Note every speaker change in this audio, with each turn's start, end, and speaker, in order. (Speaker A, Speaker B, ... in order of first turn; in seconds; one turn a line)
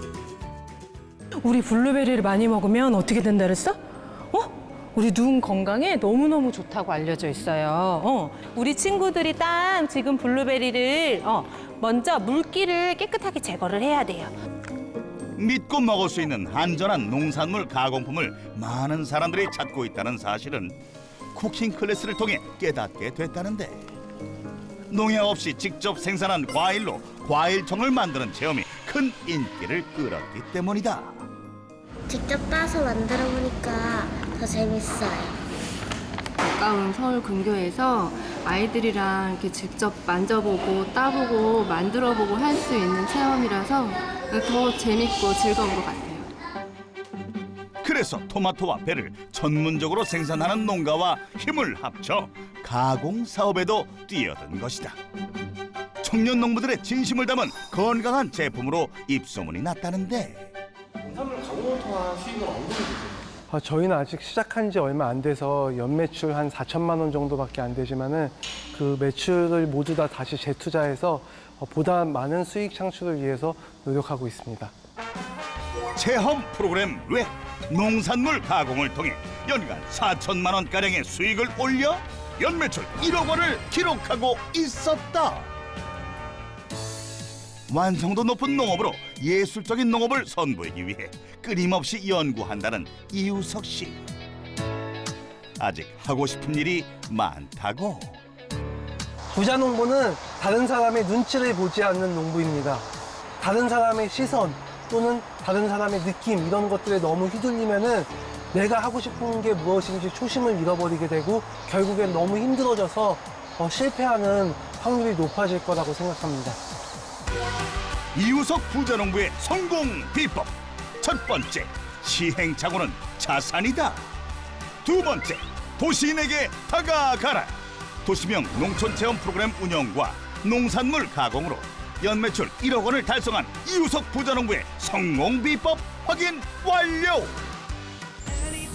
Speaker A: 1.4-14.3
Speaker B: 15.4-20.8
Speaker B: 21.3-23.9
Speaker B: 24.9-31.3
Speaker C: 32.1-35.4
Speaker D: 36.4-46.3
Speaker B: 47.8-55.0
Speaker B: 56.0-60.5
Speaker E: 61.0-63.3
Speaker F: 63.5-74.7
Speaker B: 76.0-85.5
Speaker B: 87.7-94.0
Speaker B: 95.6-98.2
Speaker F: 99.3-102.9
Speaker F: 103.4-116.6
Speaker B: 118.1-124.1
Speaker B: 124.8-137.4